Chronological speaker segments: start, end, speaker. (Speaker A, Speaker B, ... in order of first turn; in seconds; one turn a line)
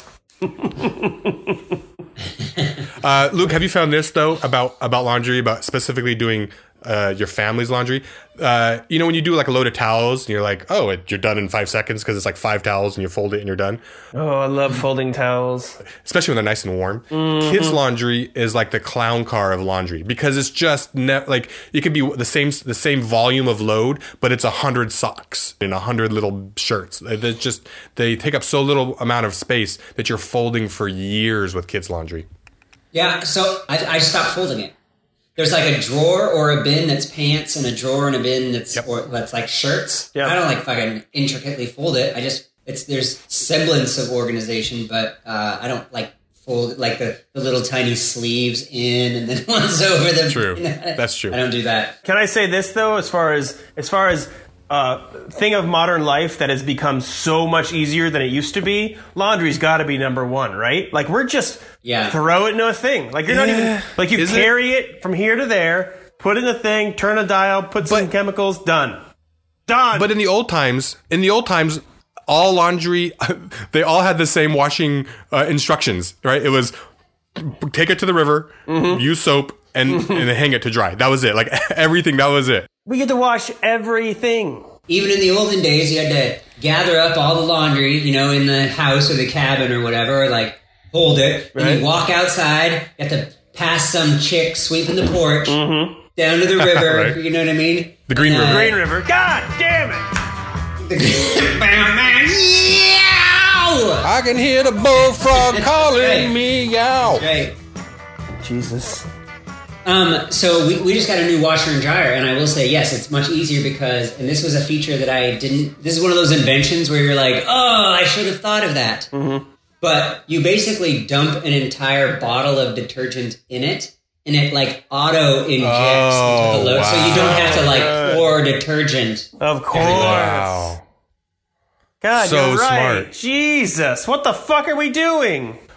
Speaker A: 0.4-1.7
Speaker B: 3.0-13.8
Speaker A: 14.1-15.8
Speaker B: 15.9-32.2
Speaker A: 17.1-17.8
Speaker C: 32.9-34.7
Speaker C: 35.4-52.0
Speaker B: 50.3-51.4
Speaker A: 52.0-69.0
Speaker C: 61.8-62.1
Speaker B: 63.3-64.5
Speaker B: 67.8-68.1
Speaker A: 69.7-70.1
Speaker B: 69.9-76.7
Speaker B: 77.3-82.7
Speaker A: 78.7-79.0
Speaker A: 79.9-80.2
Speaker A: 82.8-84.7
Speaker C: 84.9-95.6
Speaker A: 91.5-91.8
Speaker A: 95.5-96.0
Speaker C: 96.1-98.8
Speaker B: 96.6-97.2
Speaker B: 98.1-98.6
Speaker A: 98.3-100.1
Speaker C: 100.8-104.1
Speaker B: 104.0-107.2
Speaker C: 105.3-106.3
Speaker C: 107.1-107.6
Speaker A: 108.4-109.1
Speaker C: 109.8-119.1
Speaker A: 119.1-119.5
Speaker C: 119.8-129.3
Speaker B: 125.6-127.8
Speaker A: 127.1-128.3
Speaker A: 129.4-130.7
Speaker B: 129.7-130.8
Speaker A: 132.0-135.6
Speaker B: 132.1-133.1